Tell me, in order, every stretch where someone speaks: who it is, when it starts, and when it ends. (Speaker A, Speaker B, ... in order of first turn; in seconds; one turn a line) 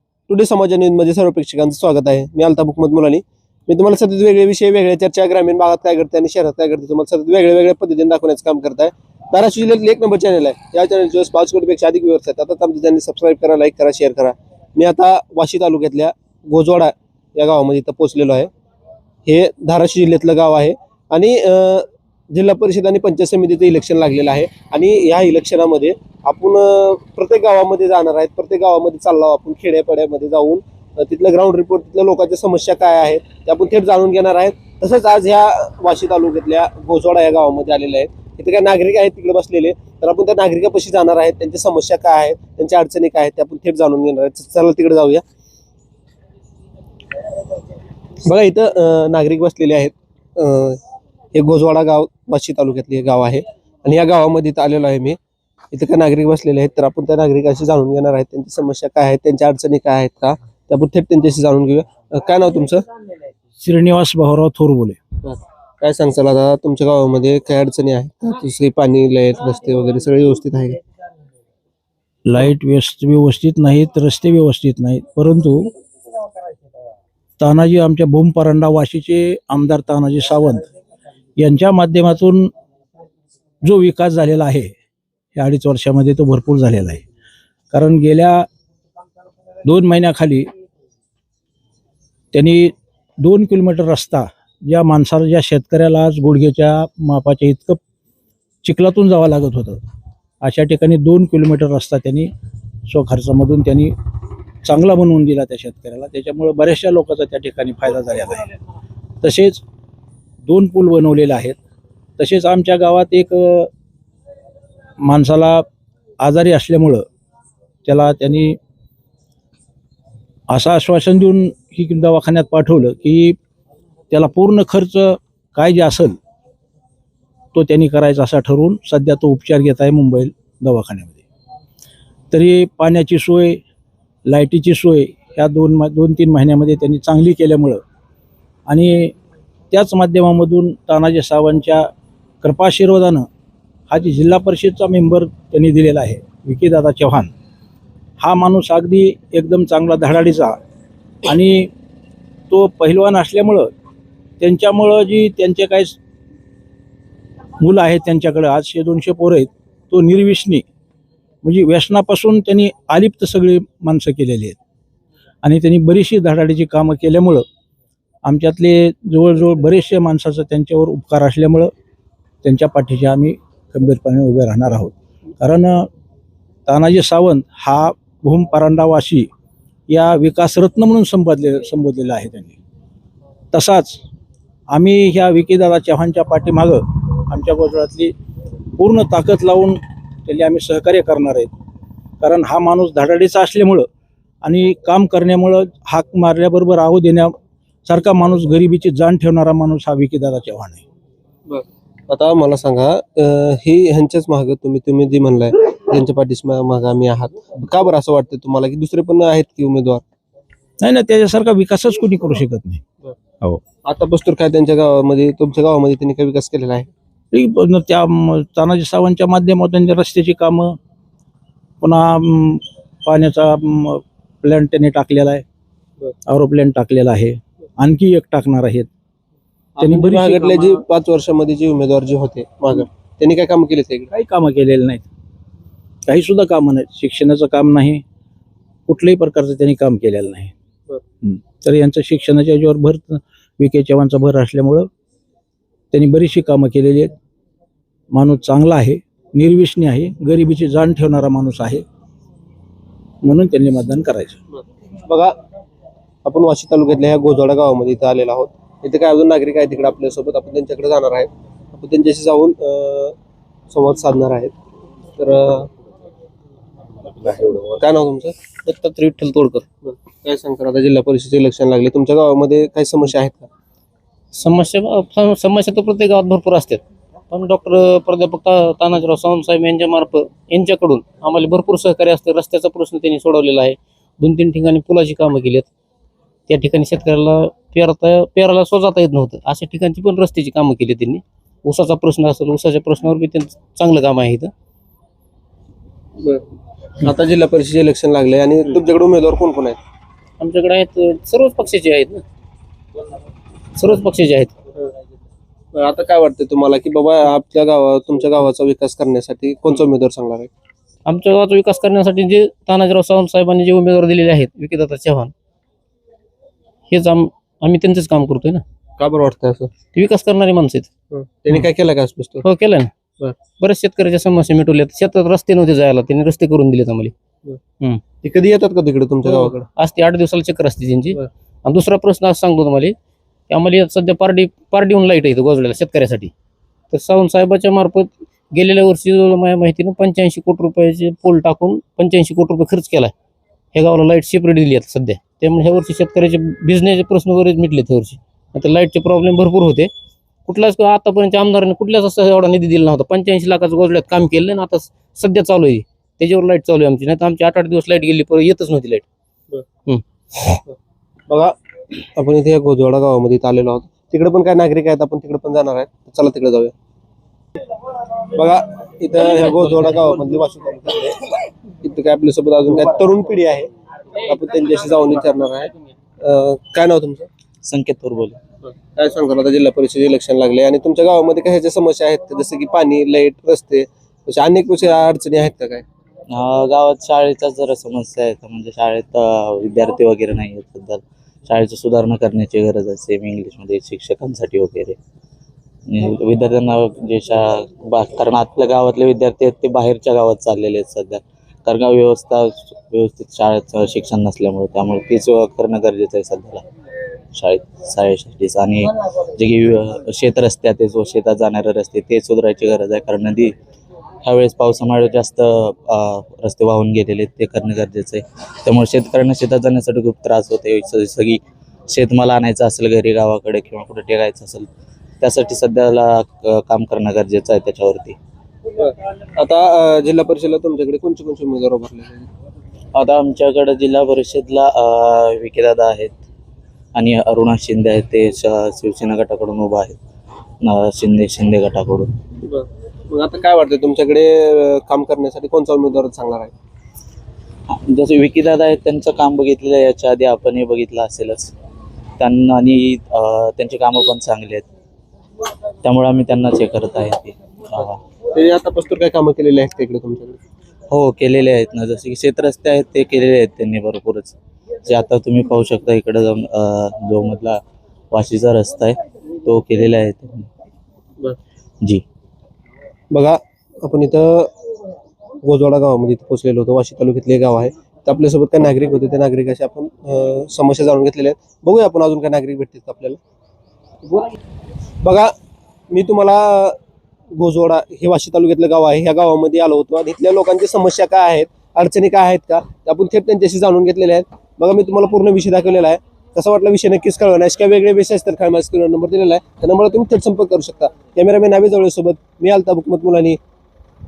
Speaker A: 0.3-18.5
Speaker A: 19.2-45.2
Speaker A: 48.2-50.8
Speaker A: 51.3-55.2
Speaker A: 55.7-62.8
Speaker B: 63.6-65.0
Speaker A: 65.2-70.8
Speaker B: 72.3-75.7
Speaker B: 77.4-80.7
Speaker B: 81.4-82.5
Speaker B: 83.6-84.7
Speaker B: 85.4-87.0
Speaker B: 87.7-88.5
Speaker B: 89.7-90.5
Speaker B: 92.3-97.8
Speaker B: 98.6-99.8
Speaker B: 100.4-102.3
Speaker B: 102.9-103.9
Speaker B: 104.6-108.5
Speaker B: 109.2-109.6
Speaker B: 110.4-111.6
Speaker B: 112.2-113.7
Speaker B: 115.0-115.7
Speaker B: 116.2-117.0
Speaker B: 117.9-118.6
Speaker B: 120.5-123.4
Speaker B: 124.1-126.2
Speaker B: 127.5-131.2
Speaker B: 132.3-133.6
Speaker B: 134.3-137.8
Speaker B: 138.7-139.1
Speaker B: 139.7-141.9
Speaker B: 142.4-143.2
Speaker B: 143.9-147.3
Speaker B: 148.2-150.6
Speaker B: 151.2-151.7
Speaker B: 152.5-153.7
Speaker B: 154.4-156.0
Speaker B: 157.6-160.6
Speaker B: 161.4-164.6
Speaker B: 165.4-167.4
Speaker B: 168.2-171.7
Speaker B: 172.4-175.9
Speaker B: 176.7-179.3
Speaker B: 179.9-182.6
Speaker B: 183.5-184.0
Speaker B: 184.7-188.1
Speaker B: 188.8-191.5
Speaker B: 192.2-193.8
Speaker B: 194.4-197.3
Speaker B: 197.8-200.8
Speaker A: 201.5-210.0
Speaker B: 210.8-212.8
Speaker A: 213.8-216.9
Speaker B: 217.3-220.8
Speaker B: 221.8-225.4
Speaker B: 226.3-228.9
Speaker A: 229.8-234.1
Speaker B: 229.8-230.8
Speaker B: 234.1-235.1
Speaker B: 236.1-238.0
Speaker B: 238.9-240.5
Speaker B: 241.2-244.9
Speaker B: 245.9-247.1
Speaker B: 248.1-251.8
Speaker B: 253.2-254.4
Speaker A: 255.1-255.4
Speaker A: 256.2-263.1
Speaker A: 263.7-264.5
Speaker A: 265.1-265.7
Speaker A: 267.2-268.4
Speaker C: 268.6-269.7
Speaker A: 269.8-273.5
Speaker C: 274.3-285.7
Speaker C: 286.5-294.5
Speaker A: 297.0-299.8
Speaker C: 300.4-302.2
Speaker C: 303.8-304.5
Speaker A: 305.7-310.5
Speaker C: 311.1-315.3
Speaker C: 316.9-318.6
Speaker A: 319.0-319.7
Speaker C: 319.9-320.9
Speaker A: 321.1-322.4
Speaker C: 322.4-322.9
Speaker C: 323.4-327.1
Speaker A: 328.2-329.6
Speaker C: 329.2-332.9
Speaker C: 333.5-336.3
Speaker C: 336.9-343.1
Speaker C: 343.7-349.9
Speaker C: 350.4-359.1
Speaker C: 359.8-360.6
Speaker A: 361.3-361.6
Speaker A: 362.1-366.7
Speaker A: 368.3-377.3
Speaker D: 377.6-378.4
Speaker A: 378.6-385.8
Speaker D: 386.3-395.0
Speaker D: 395.9-406.6
Speaker D: 407.3-413.5
Speaker D: 414.2-424.7
Speaker D: 425.2-428.2
Speaker A: 428.8-432.3
Speaker D: 432.9-436.1
Speaker D: 436.9-440.0
Speaker D: 440.6-442.1
Speaker A: 442.4-446.5
Speaker D: 447.7-451.5
Speaker D: 452.2-454.7
Speaker D: 455.8-458.0
Speaker A: 458.3-460.4
Speaker D: 460.9-467.6
Speaker D: 468.1-470.5
Speaker A: 473.1-474.5
Speaker A: 475.4-483.2
Speaker A: 485.0-485.3
Speaker A: 485.9-486.8
Speaker A: 487.3-503.4